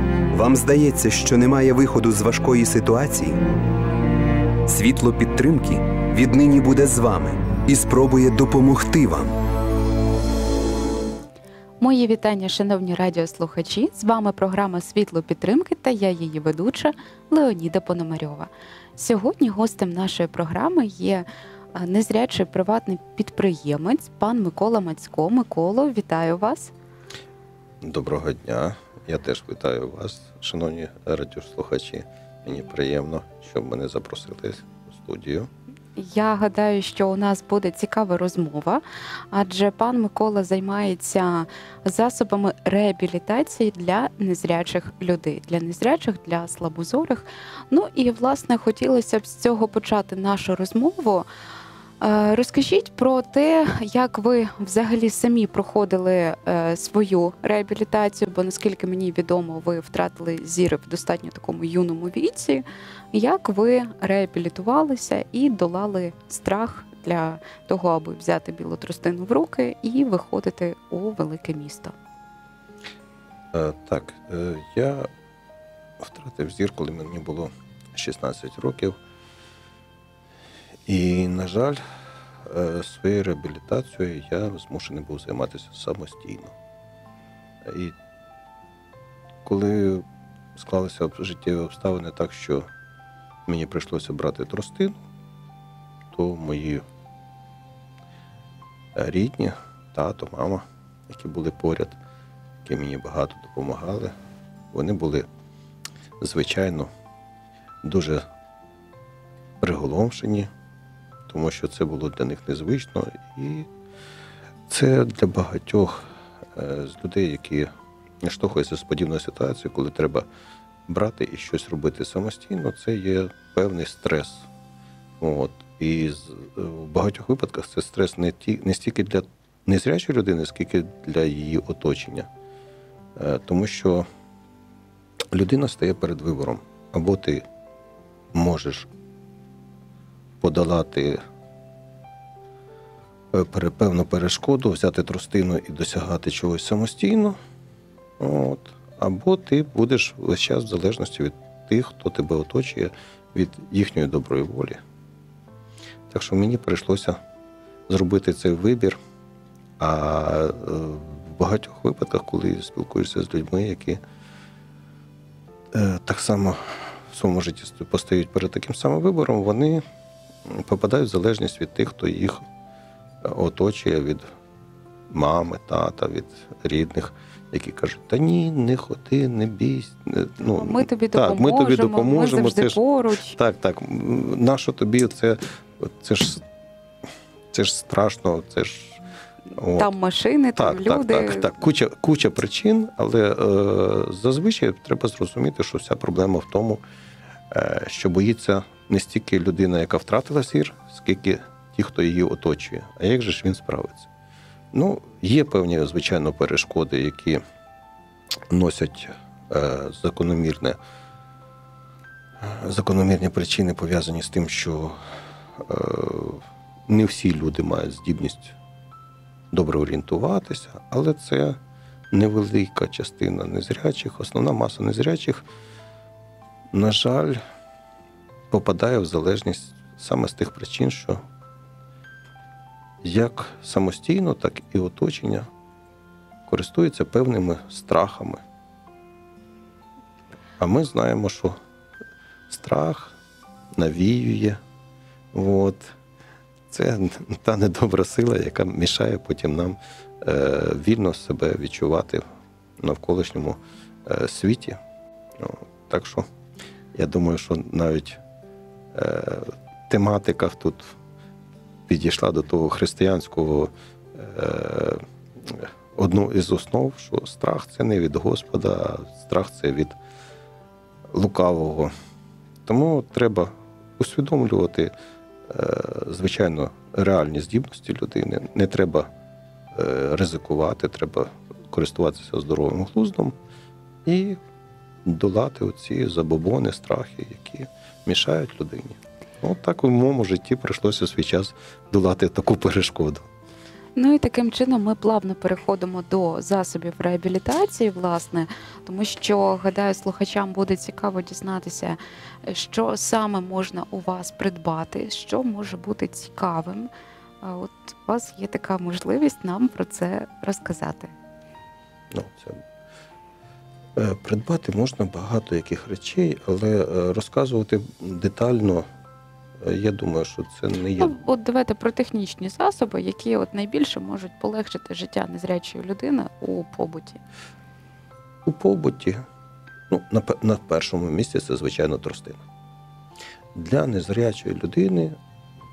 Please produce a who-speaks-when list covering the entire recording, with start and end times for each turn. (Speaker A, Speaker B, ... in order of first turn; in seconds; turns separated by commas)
Speaker A: 0.3-3.4, Speaker A: 4.7-9.3, Speaker B: 11.8-26.7, Speaker C: 27.8-35.5, Speaker B: 36.0-51.2, Speaker B: 52.0-71.9, Speaker C: 73.5-75.1, Speaker C: 76.0-79.0, Speaker C: 80.8-81.8, Speaker C: 82.4-86.5, Speaker C: 87.6-87.9, Speaker C: 89.4-92.7, Speaker C: 93.5-95.0, Speaker C: 96.1-96.8, Speaker C: 98.9-102.0, Speaker C: 102.6-104.2, Speaker C: 104.7-105.3, Speaker C: 106.2-106.9, Speaker C: 107.8-108.2, Speaker C: 109.6-110.5, Speaker C: 111.3-113.7, Speaker C: 114.7-117.7, Speaker C: 118.2-120.3, Speaker C: 120.9-124.5, Speaker C: 125.2-132.3, Speaker C: 133.2-134.1, Speaker C: 135.3-137.4, Speaker C: 138.3-138.9, Speaker C: 140.4-141.2, Speaker C: 143.3-147.4, Speaker C: 148.2-154.8, Speaker C: 156.1-157.2, Speaker C: 157.9-159.0, Speaker C: 159.8-164.0, Speaker C: 165.7-169.8, Speaker C: 170.4-172.4, Speaker C: 173.2-174.2, Speaker C: 175.1-186.4, Speaker B: 180.4-183.4, Speaker C: 187.5-189.0, Speaker C: 189.6-189.9, Speaker B: 189.6-191.5, Speaker C: 190.6-196.8, Speaker C: 197.5-204.1, Speaker C: 204.7-207.4, Speaker C: 208.5-210.8, Speaker C: 212.4-215.0, Speaker C: 215.6-218.6, Speaker C: 219.5-221.6, Speaker C: 222.1-225.4, Speaker C: 226.7-227.4, Speaker C: 228.5-231.2, Speaker C: 233.0-235.5, Speaker C: 236.5-238.4, Speaker C: 240.6-241.6, Speaker C: 242.5-243.1, Speaker C: 243.7-244.6, Speaker C: 245.3-245.9, Speaker C: 246.7-252.2, Speaker C: 252.8-254.8, Speaker C: 255.4-256.3, Speaker C: 256.9-258.2, Speaker C: 258.9-260.9, Speaker C: 261.9-269.9, Speaker C: 271.1-271.9, Speaker C: 272.6-274.9, Speaker C: 275.5-279.1, Speaker C: 279.7-283.4, Speaker C: 284.0-284.4, Speaker C: 285.0-293.3, Speaker B: 293.9-306.9, Speaker B: 307.4-311.1, Speaker C: 312.1-312.6, Speaker C: 313.9-318.9, Speaker C: 319.6-321.1, Speaker B: 321.0-327.2, Speaker C: 328.4-329.2, Speaker C: 329.9-332.4, Speaker C: 333.5-335.2